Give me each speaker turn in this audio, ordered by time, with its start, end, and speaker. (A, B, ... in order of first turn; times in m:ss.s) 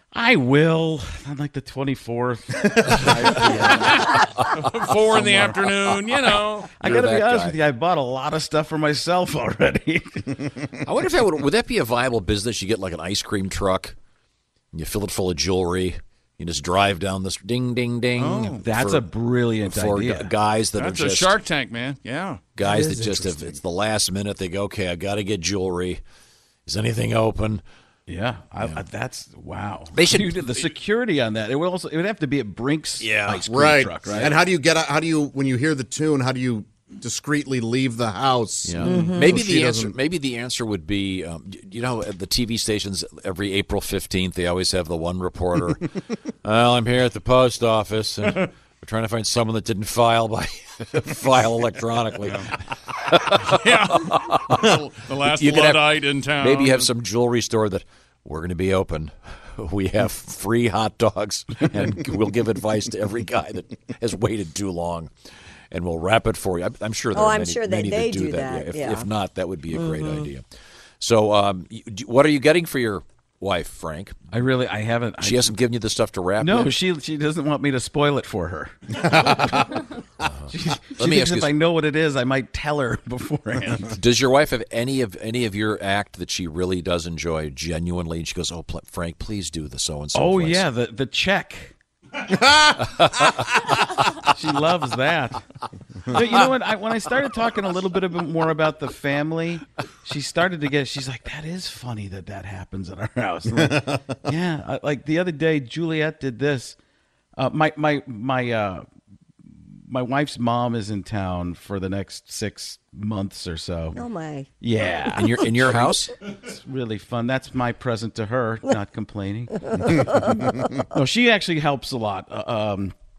0:00.1-0:03.8 A
0:02.8-0:07.5 B
0:03.8-0:06.8 C
0:06.8-0:10.7 A
0:10.8-0:14.0 B
0:14.7-0:19.0 B
0:18.1-0:18.6 C
0:18.6-0:20.3 A
0:19.6-0:21.4 B
0:20.7-0:22.4 C
0:22.6-0:26.0 B
0:22.6-0:23.6 D
0:26.6-0:27.6 B
0:28.1-0:34.4 A
0:29.9-0:30.5 B
0:33.0-0:33.4 B
0:33.3-0:40.0 D
0:38.6-1:05.1 B
0:38.8-0:39.3 E
0:53.4-0:56.9 C
1:05.7-1:10.4 B
1:07.1-1:09.1 E
1:09.7-1:10.2 E
1:11.0-1:14.1 B
1:14.3-1:15.5 A
1:15.2-1:16.8 B
1:16.4-1:19.7 A
1:20.2-1:21.5 B
1:20.5-1:23.9 A
1:23.9-1:30.7 B
1:30.1-1:31.7 A
1:34.1-1:35.4 A
1:36.1-1:46.8 A
1:47.4-1:48.8 A
1:49.8-1:54.0 A
1:53.9-1:54.5 E
1:54.6-2:02.9 A
1:55.1-1:56.1 B